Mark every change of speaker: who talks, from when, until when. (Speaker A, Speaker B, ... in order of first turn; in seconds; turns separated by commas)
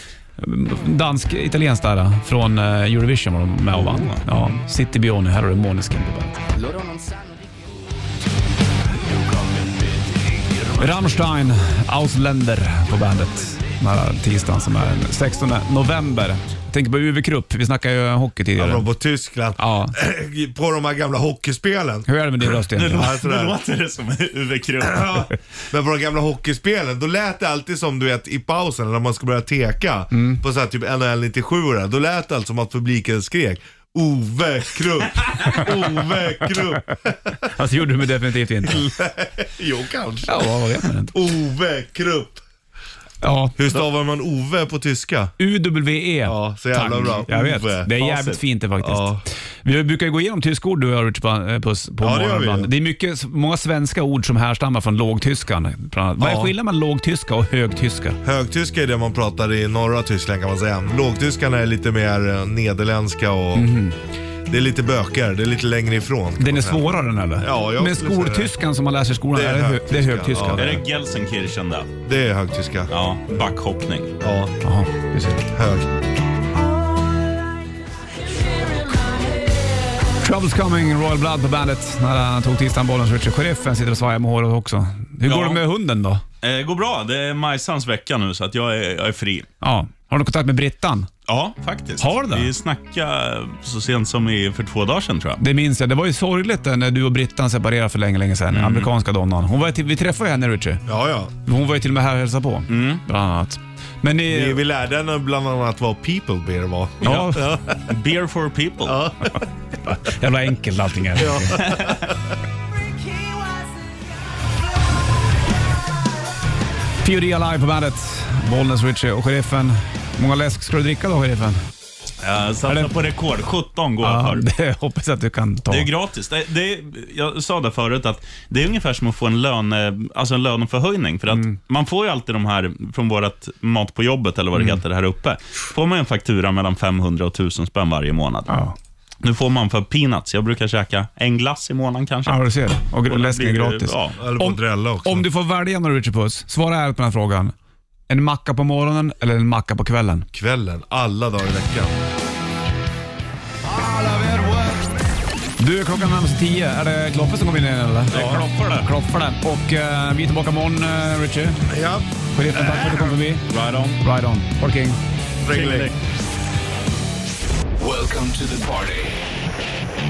Speaker A: 0.4-6.4, Speaker B: 3.7-4.2, Speaker C: 6.6-7.3, Speaker C: 9.0-11.2, Speaker A: 10.8-18.9, Speaker D: 18.6-22.1, Speaker A: 19.6-19.9, Speaker A: 22.1-23.2, Speaker B: 22.7-25.3, Speaker D: 22.9-23.6, Speaker D: 24.8-37.5, Speaker A: 30.1-30.4, Speaker A: 37.5-38.9, Speaker D: 38.6-40.5, Speaker A: 40.3-41.1, Speaker D: 41.1-42.4, Speaker A: 43.2-43.8, Speaker D: 43.6-45.3, Speaker A: 45.4-49.1, Speaker D: 46.2-48.0, Speaker B: 48.0-48.4, Speaker D: 48.8-49.2, Speaker A: 49.6-58.2, Speaker D: 52.0-52.7, Speaker D: 56.2-56.5, Speaker D: 58.2-63.7, Speaker A: 63.5-64.0, Speaker D: 64.5-68.5, Speaker A: 66.4-70.8, Speaker D: 69.3-70.8, Speaker B: 70.6-71.9, Speaker D: 72.0-72.9, Speaker B: 72.9-74.2, Speaker D: 74.2-74.5, Speaker A: 74.6-75.5, Speaker D: 75.5-75.9, Speaker A: 80.2-86.2, Speaker B: 85.2-85.6, Speaker B: 86.4-89.5, Speaker A: 89.6-91.1, Speaker B: 91.3-95.4, Speaker A: 92.0-92.5, Speaker A: 95.4-100.8, Speaker B: 98.5-98.9, Speaker D: 100.9-101.3, Speaker A: 101.4-104.6, Speaker B: 102.7-103.0, Speaker D: 104.3-107.8, Speaker A: 107.0-107.5, Speaker B: 107.0-107.3, Speaker B: 107.9-109.0, Speaker D: 108.8-109.4, Speaker A: 109.8-111.7, Speaker D: 111.2-112.1, Speaker A: 117.0-121.6, Speaker B: 122.2-124.5, Speaker A: 124.0-125.9, Speaker B: 125.7-138.5, Speaker A: 131.3-131.6, Speaker A: 134.6-134.8, Speaker A: 138.5-138.8, Speaker B: 139.2-142.4, Speaker A: 142.2-147.5, Speaker B: 143.1-144.2, Speaker D: 144.2-145.3, Speaker A: 148.1-150.3, Speaker D: 150.3-151.9, Speaker A: 155.6-161.6, Speaker B: 158.1-158.9, Speaker D: 161.7-163.1, Speaker A: 162.3-163.5, Speaker B: 163.5-164.0, Speaker A: 164.0-165.0, Speaker D: 165.4-165.9, Speaker B: 165.5-166.0, Speaker C: 167.8-169.2